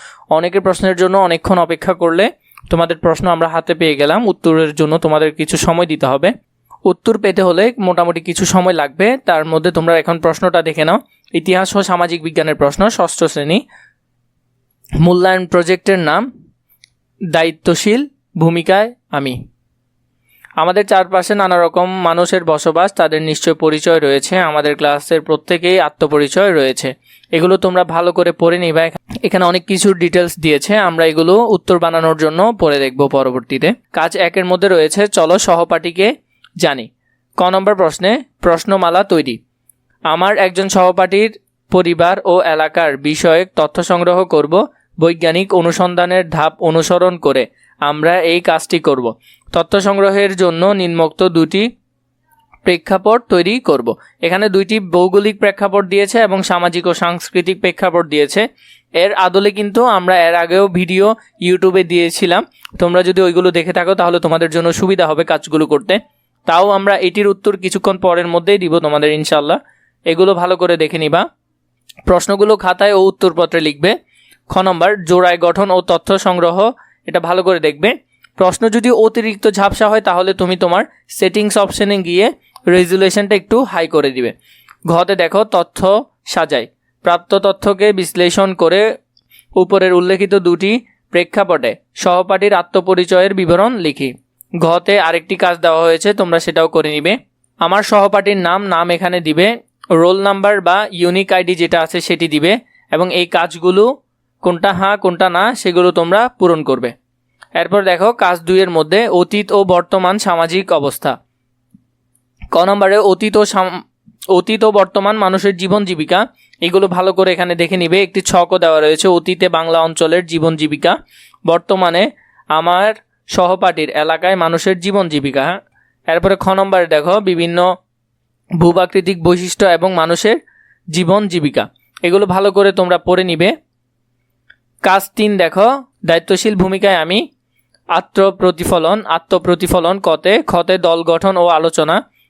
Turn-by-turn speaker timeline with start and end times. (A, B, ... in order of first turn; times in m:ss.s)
0:00.3-0:06.3 A
0:06.9-0:13.6 A
0:15.0-0:16.3 A
0:17.3-0:19.4 A
0:20.6-0:36.1 A
0:36.6-0:36.9 A
0:37.4-0:39.4 A
0:40.1-0:51.7 A
0:52.6-0:58.4 A
0:59.0-1:11.2 A
1:12.1-1:13.9 A
1:14.5-1:24.3 A
1:24.9-1:28.8 A
1:29.6-1:43.9 A
1:44.4-1:46.9 A
1:47.6-1:51.2 A
1:52.6-1:53.7 A
1:54.3-2:01.0 A
2:01.5-2:02.0 A
2:02.6-2:05.6 A
2:06.1-2:07.6 A
2:08.6-2:10.4 A
2:10.9-2:13.5 A
2:14.8-2:17.2 A
2:18.0-2:22.0 A